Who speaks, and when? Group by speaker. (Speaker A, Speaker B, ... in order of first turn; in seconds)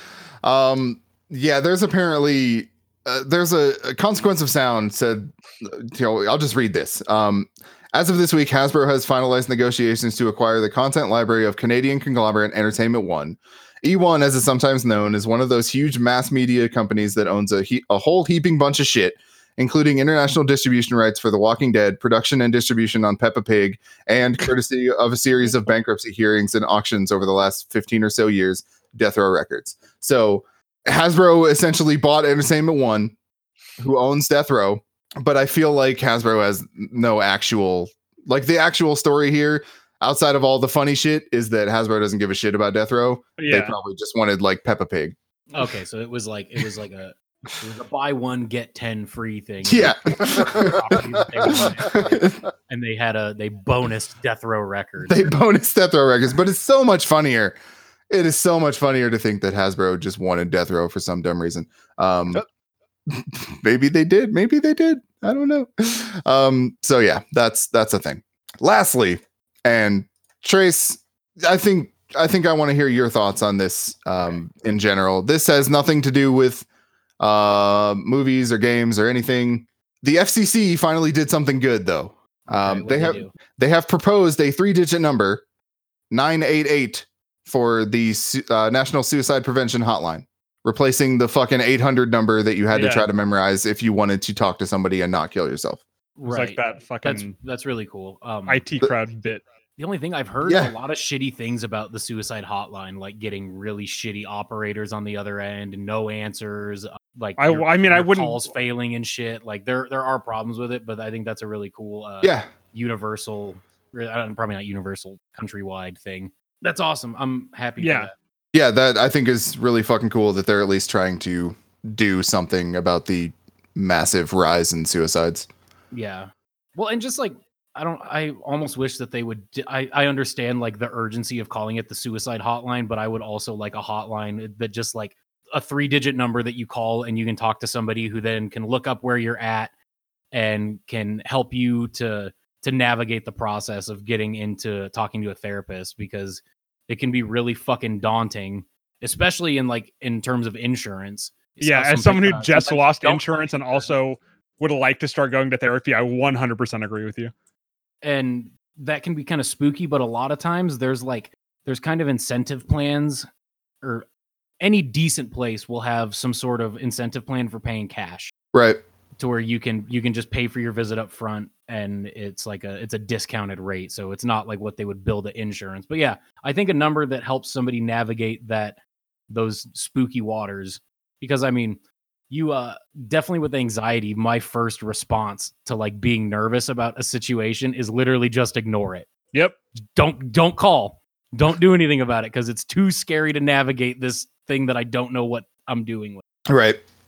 Speaker A: 0.4-33.1, 33.8-45.7, 49.6-52.4, 55.0-57.5, 58.1-62.4, 63.1-76.7, 77.2-85.4, 86.1-95.8, 100.4-100.7, 112.2-112.5, 118.5-125.5, 168.5-168.8, 196.5-196.8
Speaker B: 43.4-43.7, 92.7-93.1, 96.3-97.3, 98.5-99.4, 107.4-108.4, 117.8-118.1, 151.6-157.3
Speaker C: 45.5-55.3, 82.5-83.3, 96.2-98.7, 99.8-118.1, 125.9-139.7, 140.3-153.9, 158.0-163.3, 163.8-164.1, 164.6-168.3, 169.2-189.1, 189.9-196.2